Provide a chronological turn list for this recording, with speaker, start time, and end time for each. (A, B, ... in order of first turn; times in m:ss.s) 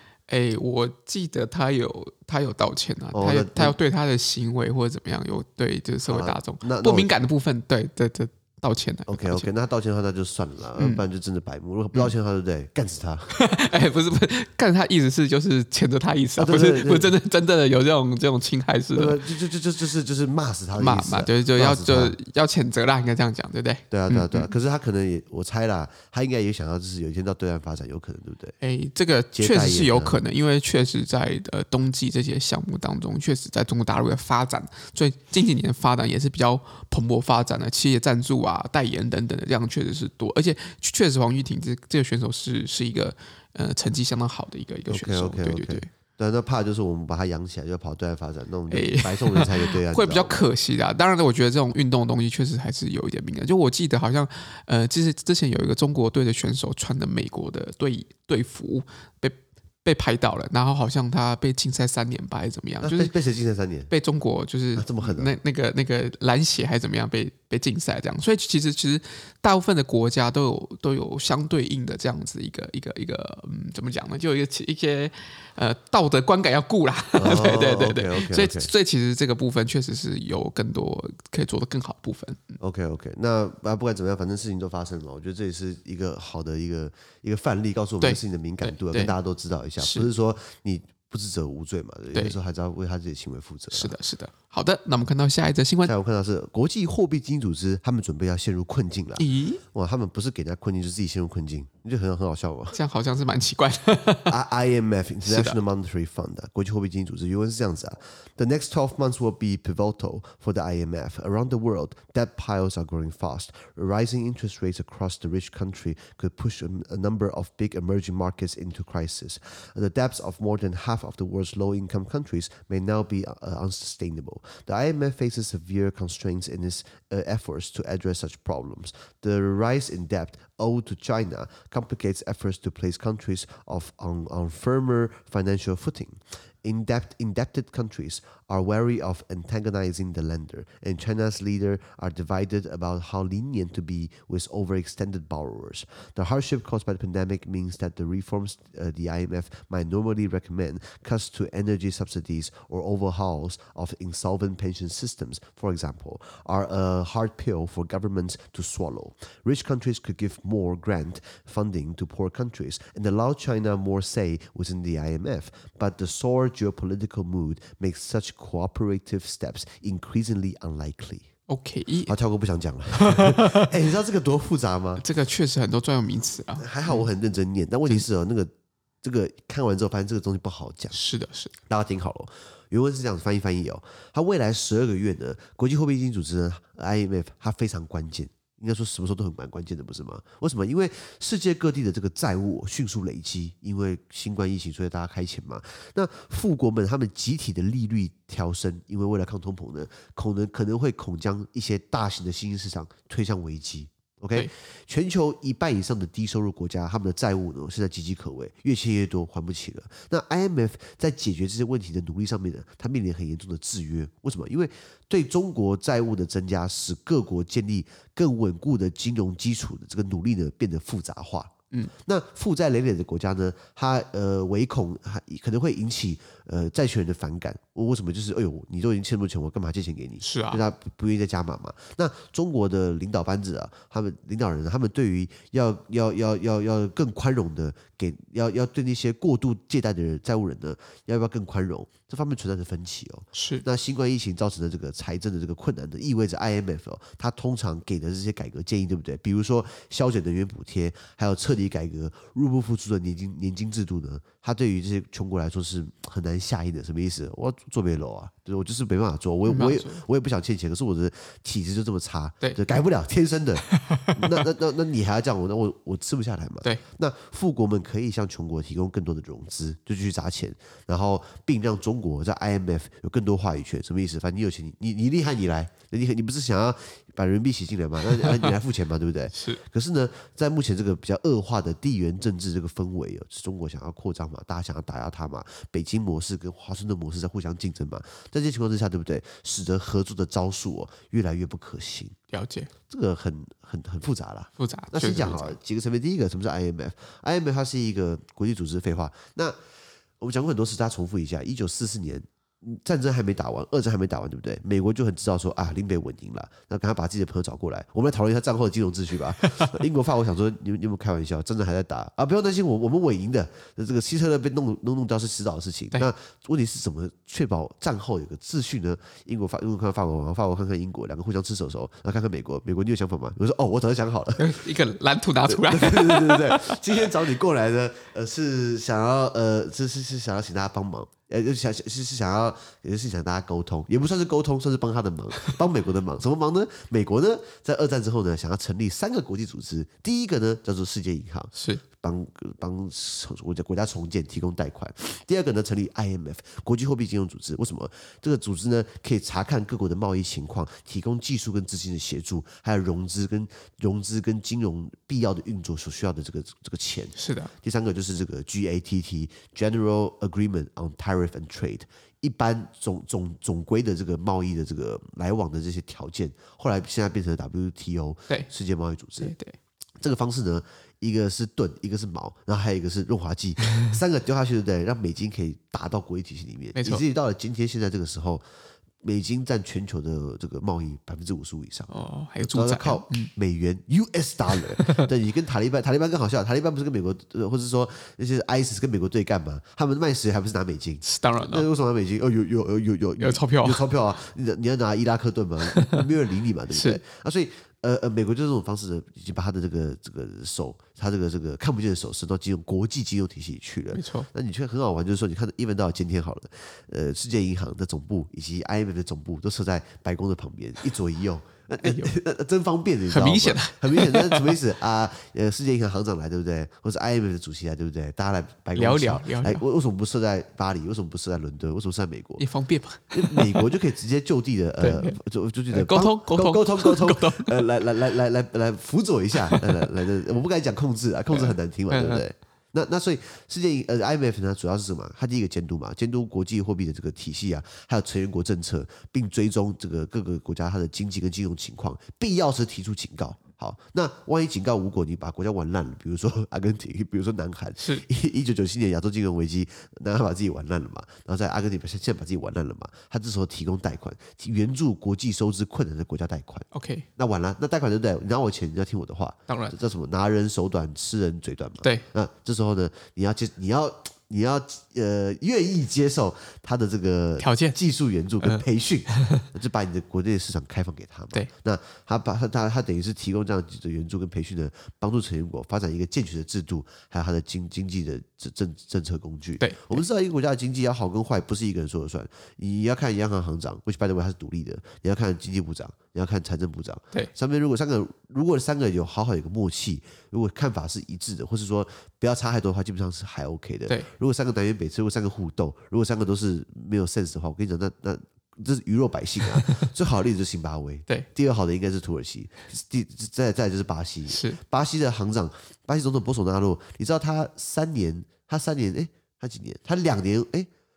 0:00.3-0:09.5 A
0:03.1-0:03.8 B
0:06.1-0:07.1 B
0:09.1-0:13.3 B
0:10.8-0:11.0 A
0:13.3-0:19.2 A
0:16.4-0:17.1 B
0:18.9-0:22.2 B
0:20.8-0:24.5 A
0:23.9-0:28.6 B
0:28.6-0:45.9 A
0:29.3-0:30.2 B
0:44.9-0:50.4 B
0:48.7-1:03.1 A
1:02.8-1:03.9 B
1:03.9-1:22.6 A
1:04.8-1:05.3 B
1:17.2-1:18.7 B
1:22.6-1:33.9 B
1:28.0-1:29.1 A
1:29.8-1:30.1 A
1:33.7-1:35.9 A
1:35.8-1:42.8 B
1:39.2-1:39.6 A
1:42.7-1:44.3 A
1:44.3-2:51.3 B
1:45.2-1:45.6 A
2:51.5-2:52.1 A
2:52.1-2:55.0 B
2:52.9-2:53.7 A
2:55.0-2:57.1 A
2:56.6-2:58.5 B
2:59.0-3:01.0 B
3:00.9-3:01.5 A
3:01.7-4:52.1 B
3:50.2-3:50.6 A
4:03.3-4:03.6 A
4:19.4-4:20.0 A
4:23.7-4:24.4 A
4:39.3-4:39.6 A
4:52.3-4:52.7 A
4:52.9-4:59.6 B
4:54.6-4:55.6 A
5:00.2-5:24.6 B
5:24.4-5:27.1 A
5:25.4-6:09.3 B
5:41.6-5:41.8 A
5:57.2-5:57.5 A
6:09.2-6:09.6 A
6:10.0-6:18.4 B
6:16.7-6:17.0 A
6:19.0-6:21.9 B
6:21.9-6:23.3 A
6:22.4-7:02.4 B
6:24.8-6:25.1 A
6:31.0-6:31.7 A
6:33.2-6:33.8 A
6:35.7-6:36.0 A
6:36.7-6:37.0 A
6:43.9-6:44.3 A
6:51.8-6:52.1 A
6:53.1-6:54.6 A
6:58.7-6:59.6 A
7:02.4-7:03.7 A
7:03.1-8:30.7 B
7:04.8-7:05.2 A
7:05.7-7:07.6 A
7:09.5-7:09.8 A
7:11.3-7:12.2 A
7:27.8-7:28.0 A
7:36.7-7:37.0 A
7:39.5-7:39.7 A
7:47.4-7:47.8 A
7:48.4-7:49.4 A
7:59.6-8:00.0 A
8:24.3-8:24.6 A